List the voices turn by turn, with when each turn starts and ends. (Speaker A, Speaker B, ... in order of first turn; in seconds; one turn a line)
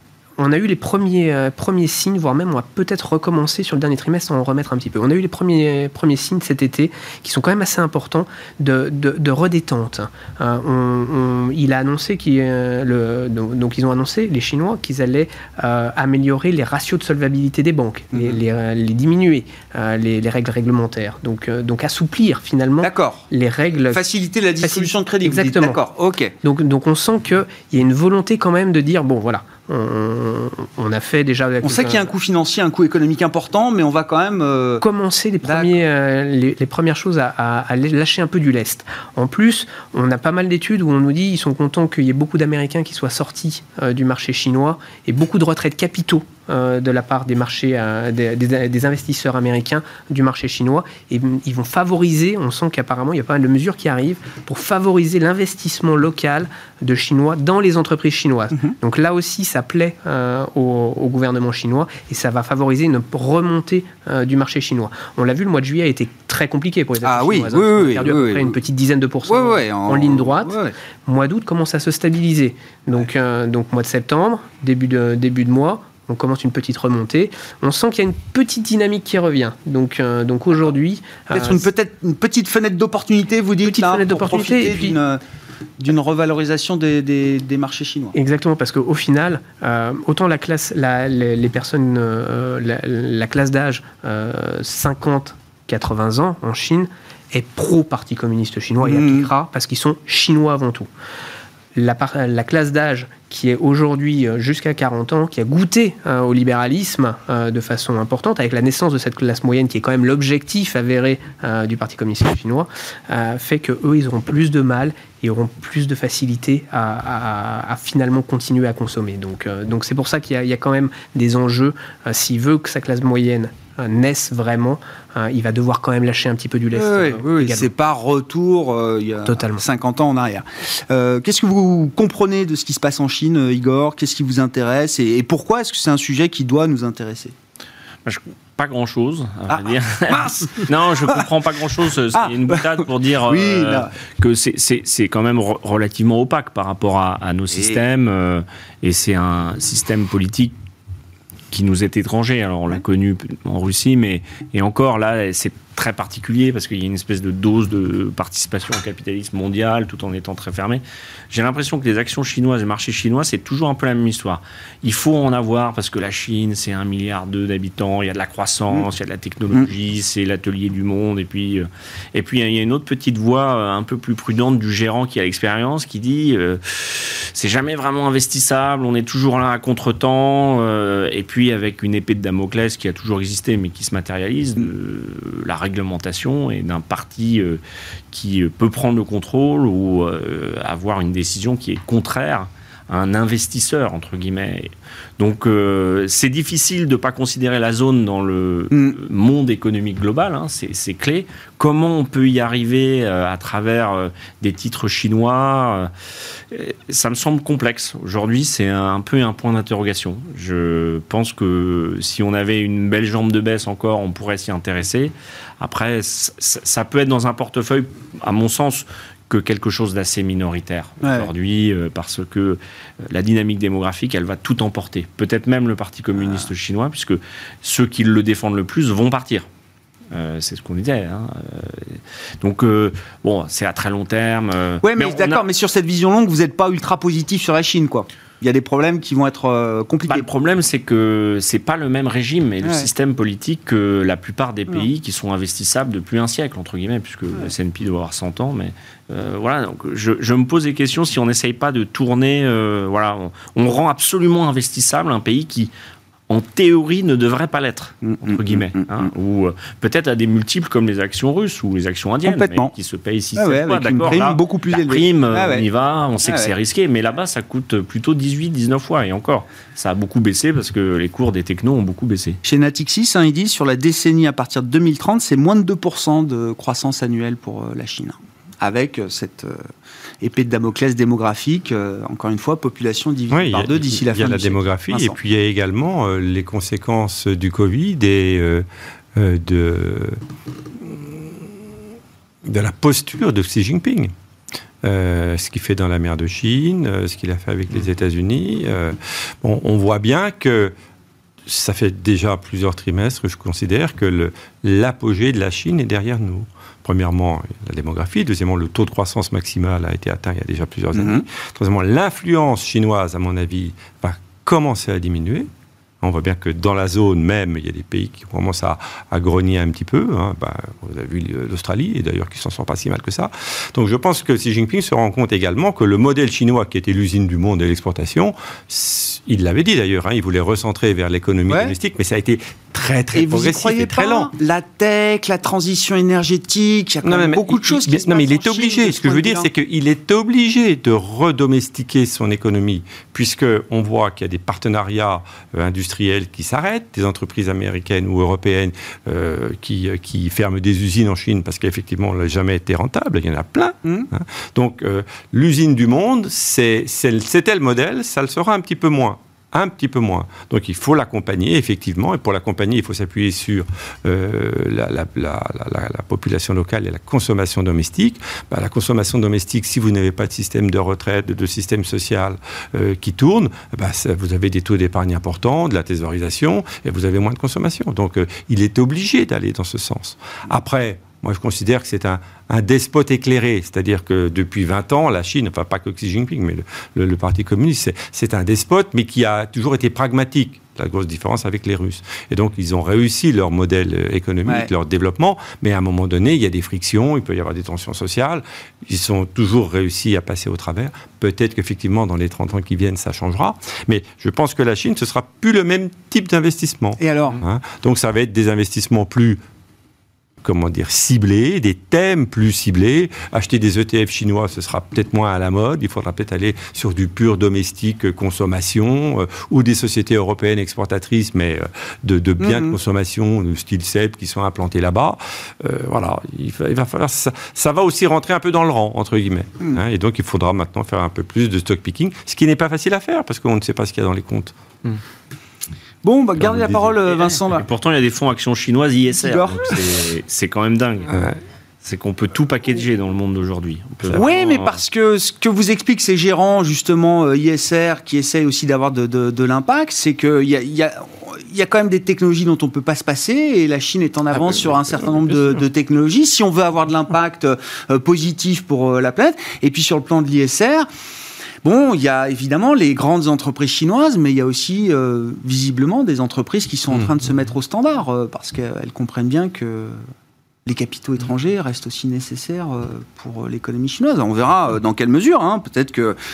Speaker A: 0.4-24.0
Speaker B: 18.1-18.4
Speaker B: 22.8-23.3
Speaker B: 23.9-26.4
Speaker A: 24.6-25.8
Speaker A: 26.4-32.1
Speaker B: 31.6-34.8
Speaker A: 34.8-81.7
Speaker B: 35.4-35.8
Speaker B: 67.0-68.5
Speaker B: 69.3-70.7
Speaker B: 81.3-85.2
Speaker A: 83.6-85.0
Speaker B: 85.8-88.2
Speaker A: 88.1-100.9
Speaker B: 98.8-99.3
Speaker A: 101.8-127.7
Speaker B: 126.7-137.3
Speaker A: 129.2-129.6
Speaker C: 138.1-150.6
Speaker B: 139.5-141.2
Speaker B: 142.1-143.9
Speaker B: 147.5-147.8
Speaker C: 151.5-187.6
Speaker C: 188.1-205.9
Speaker B: 198.7-199.0
Speaker C: 206.5-229.5
Speaker B: 221.0-221.3
Speaker B: 226.2-226.5
Speaker C: 230.1-235.4
Speaker B: 234.8-240.3
Speaker C: 240.1-255.7
Speaker B: 242.6-242.9
Speaker C: 256.3-272.4
Speaker B: 258.0-259.1
Speaker B: 262.2-262.7
Speaker B: 263.4-265.7
Speaker B: 266.2-266.5
Speaker B: 272.4-279.6
Speaker B: 280.2-285.2
Speaker D: 283.3-290.2
Speaker D: 290.7-291.8
Speaker D: 292.4-294.1
Speaker D: 294.8-300.7
Speaker D: 301.4-315.5
Speaker B: 310.9-311.3
Speaker D: 316.0-334.3
Speaker B: 331.5-331.7
Speaker B: 333.1-339.5
Speaker D: 337.0-409.4
Speaker B: 407.0-407.4
Speaker D: 410.4-434.6
Speaker B: 422.4-422.8
Speaker B: 436.0-437.6
Speaker C: 436.4-441.3
Speaker D: 436.4-436.7
Speaker B: 439.1-439.8
Speaker D: 441.1-441.4
Speaker C: 441.8-444.8
Speaker B: 444.1-460.9
Speaker D: 454.3-455.6
Speaker B: 461.6-470.0
Speaker B: 470.7-476.2